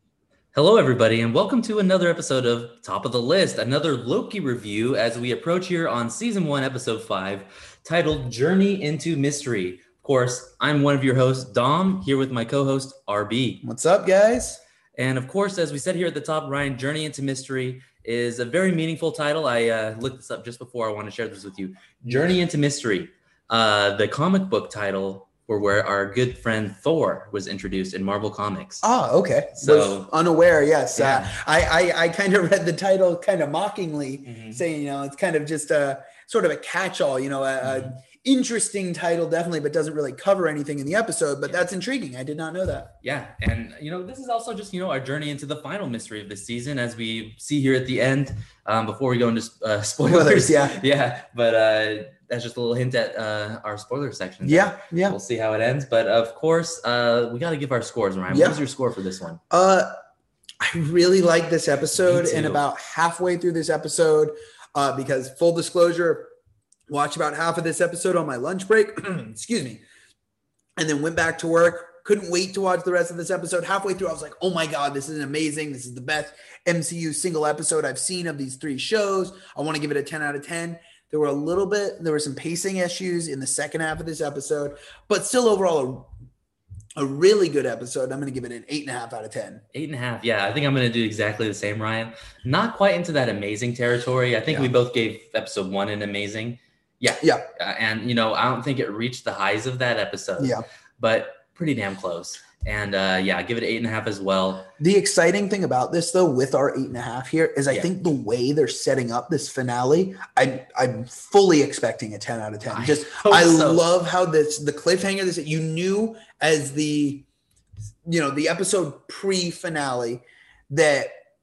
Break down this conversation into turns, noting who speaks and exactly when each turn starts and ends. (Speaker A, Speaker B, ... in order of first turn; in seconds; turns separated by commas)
Speaker A: 0.5-13.6, Speaker B: 13.6-14.6, Speaker A: 15.0-28.8, Speaker B: 28.8-42.9, Speaker A: 29.6-30.1, Speaker A: 30.9-31.3, Speaker A: 34.2-34.6, Speaker A: 37.6-37.9, Speaker A: 43.0-59.4, Speaker B: 50.0-50.8, Speaker B: 54.4-55.2, Speaker B: 58.3-58.6, Speaker B: 59.5-59.9, Speaker B: 60.6-66.3, Speaker A: 61.9-62.6, Speaker B: 66.9-69.8, Speaker B: 70.8-86.1, Speaker B: 87.0-89.6, Speaker A: 89.7-104.7, Speaker B: 94.5-94.7, Speaker B: 97.2-97.5, Speaker B: 100.4-100.6, Speaker B: 104.8-117.2, Speaker A: 112.7-113.9, Speaker B: 118.0-121.1